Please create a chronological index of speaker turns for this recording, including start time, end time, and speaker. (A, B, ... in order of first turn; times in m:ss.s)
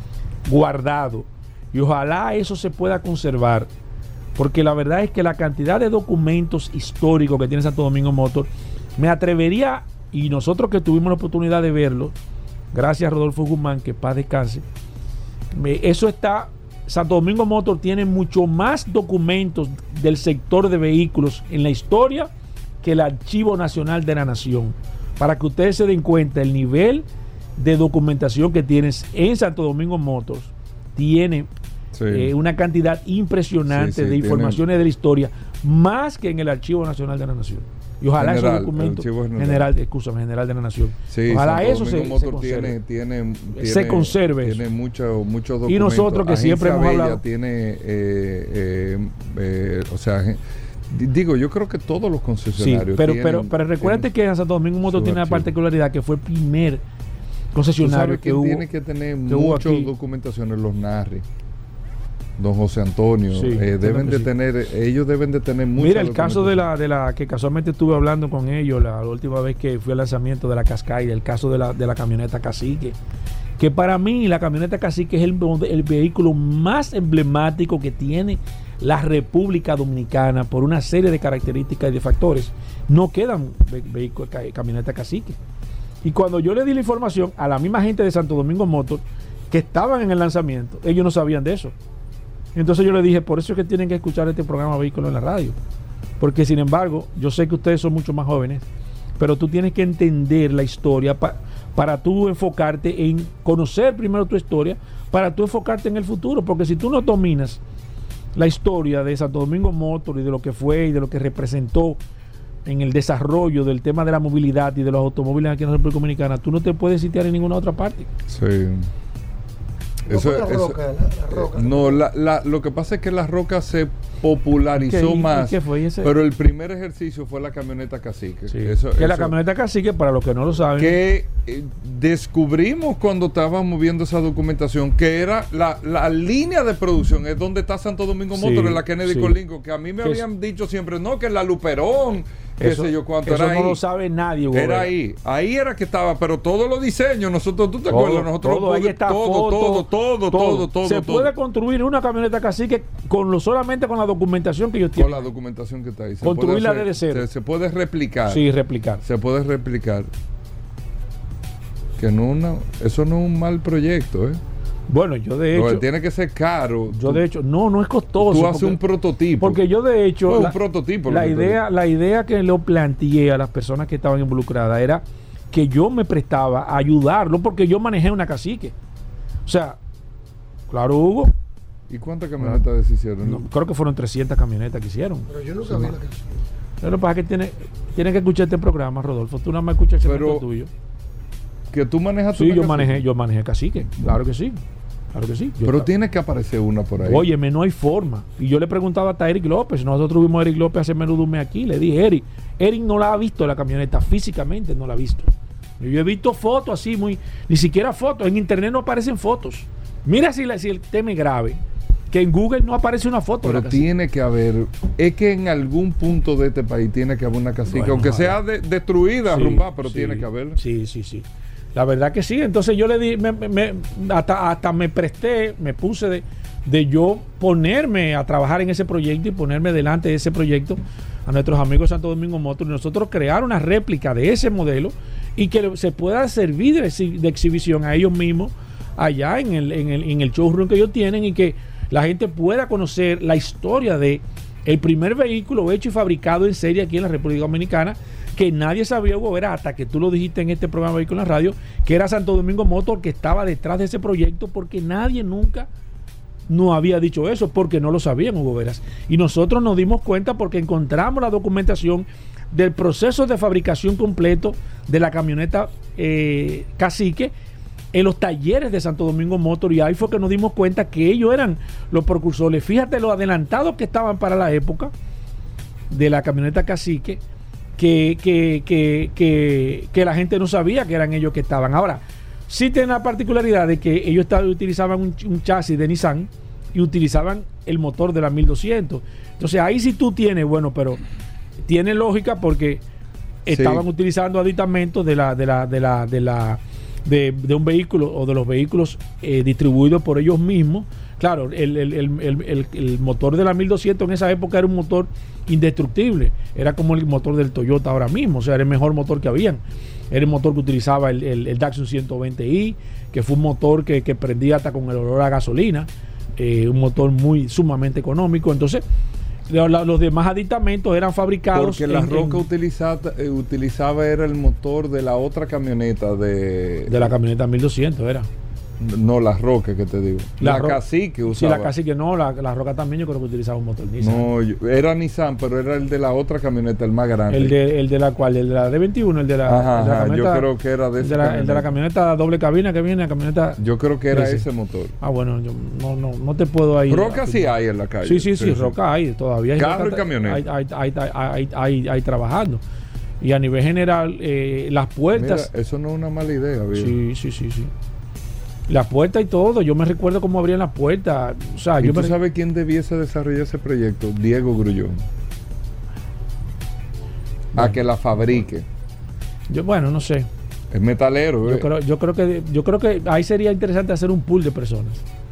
0:00.4-0:03.7 A
0:04.4-0:12.1 A
0:12.7-0:14.6 A
0:15.5-0:22.3 A
0:22.8-0:27.0 A
0:27.6-0:31.5 A
0:31.9-0:32.3 B
0:32.1-0:42.8 A
0:33.7-0:34.6 B
0:38.2-0:39.7 B
0:41.1-0:54.1 B
0:43.5-0:44.6 A
0:45.7-0:47.2 A
0:52.6-0:56.8 A
0:54.9-0:55.5 B
0:57.5-0:58.6 A
0:57.8-1:01.2 B
0:59.2-0:59.9 A
1:02.4-1:06.6 B
1:03.3-1:04.3 A
1:05.8-1:13.0 A
1:13.6-1:25.4 A
1:26.0-1:31.7 A
1:32.5-1:35.5 A
1:36.2-1:38.6 A
1:39.2-1:47.6 A
1:48.3-1:52.0 A
1:52.6-1:58.1 A
1:58.3-1:58.9 B
2:00.1-2:00.8 B
2:00.1-2:02.0 C
2:01.3-2:09.3 B
2:04.8-2:06.1 A
2:08.5-2:11.0 A
2:10.8-2:23.8 B
2:18.3-2:19.4 A
2:22.6-2:24.9 A
2:24.5-2:31.3 B
2:27.9-2:35.2 A
2:34.9-2:38.4 B
2:36.2-2:37.2 A
2:38.3-2:39.0 A
2:39.0-2:40.1 B
2:42.0-2:44.4 B
2:44.9-2:45.8 A
2:45.5-2:47.2 B
2:46.9-2:48.8 A
2:48.2-2:49.6 B
2:49.4-2:58.7 A
2:50.2-2:51.6 B
2:59.4-2:59.8 A
3:00.7-3:01.3 A
3:01.9-3:03.4 B
3:03.2-3:06.0 A
3:05.3-3:06.4 C
3:06.8-3:10.7 A
3:10.0-3:10.4 B
3:11.7-3:13.0 B
3:12.3-3:14.6 A
3:15.1-3:15.9 A
3:15.6-3:17.3 B
3:17.0-3:31.6 A
3:32.1-3:33.9 A
3:33.4-3:40.6 B
3:37.7-3:38.4 A
3:39.3-4:15.7 A
4:16.5-4:27.3 A
4:27.9-4:34.9 A
4:35.9-4:37.2 A
4:37.8-4:51.0 A
4:51.6-4:52.8 A
4:53.4-5:18.8 A
4:53.5-4:53.8 B
5:19.5-5:22.4 A
5:21.5-5:27.1 B
5:26.9-5:28.3 A
5:28.8-5:31.7 B
5:30.4-5:34.3 A
5:34.0-5:37.5 B
5:37.3-5:40.5 A
5:39.4-5:41.7 B
5:41.0-5:44.4 A
5:43.6-5:44.9 B
5:45.0-5:52.6 A
5:46.9-5:48.7 B
5:49.6-5:50.4 B
5:53.2-5:55.5 A
5:55.1-5:56.9 B
5:56.7-5:57.7 A
5:58.7-6:02.2 A
6:01.8-6:05.0 B
6:07.5-6:08.6 B
6:09.5-6:10.3 A
6:10.7-6:11.7 B
6:11.4-6:15.0 A